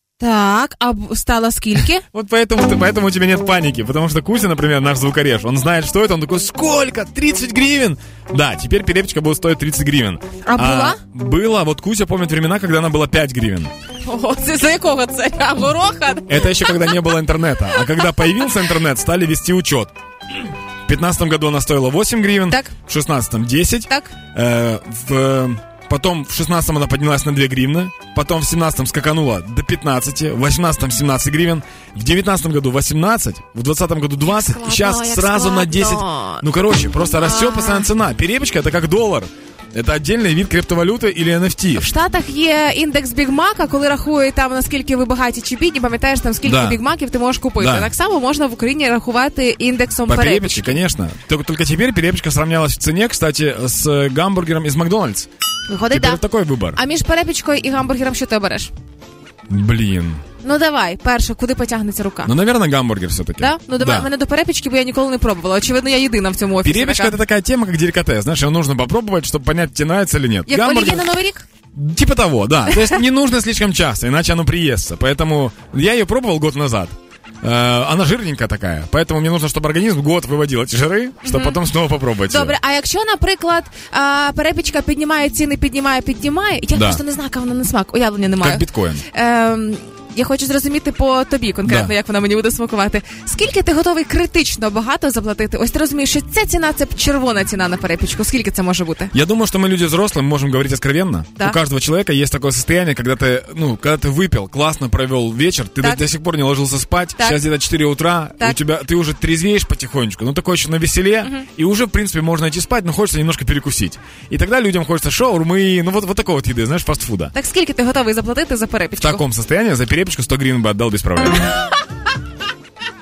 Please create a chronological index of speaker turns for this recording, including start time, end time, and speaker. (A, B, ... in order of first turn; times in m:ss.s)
0:00.2-0:02.0 A
0:02.0-0:13.7 B
0:10.4-0:11.0 A
0:14.0-0:16.6 A
0:16.3-0:19.9 B
0:20.9-0:41.9 B
0:23.9-0:24.1 A
0:34.2-0:36.4 A
0:37.0-0:37.9 A
0:41.7-0:50.8 A
0:46.4-0:46.8 B
0:47.6-0:47.9 B
0:50.1-0:55.3 B
0:55.7-0:58.7 A
0:55.9-0:56.8 B
0:59.5-1:00.2 B
1:00.4-1:02.3 A
1:02.2-1:04.1 B
1:03.4-1:07.2 A
1:06.6-1:11.0 B
1:10.5-1:11.4 A
1:11.7-1:22.6 B
1:12.7-1:13.0 A
1:21.2-1:21.6 A
1:22.2-1:39.1 A
1:26.7-1:27.0 B
1:28.4-1:29.0 B
1:31.6-1:31.9 B
1:39.1-1:57.3 B
1:47.2-1:47.4 A
1:57.3-1:59.2 A
1:59.0-2:01.5 B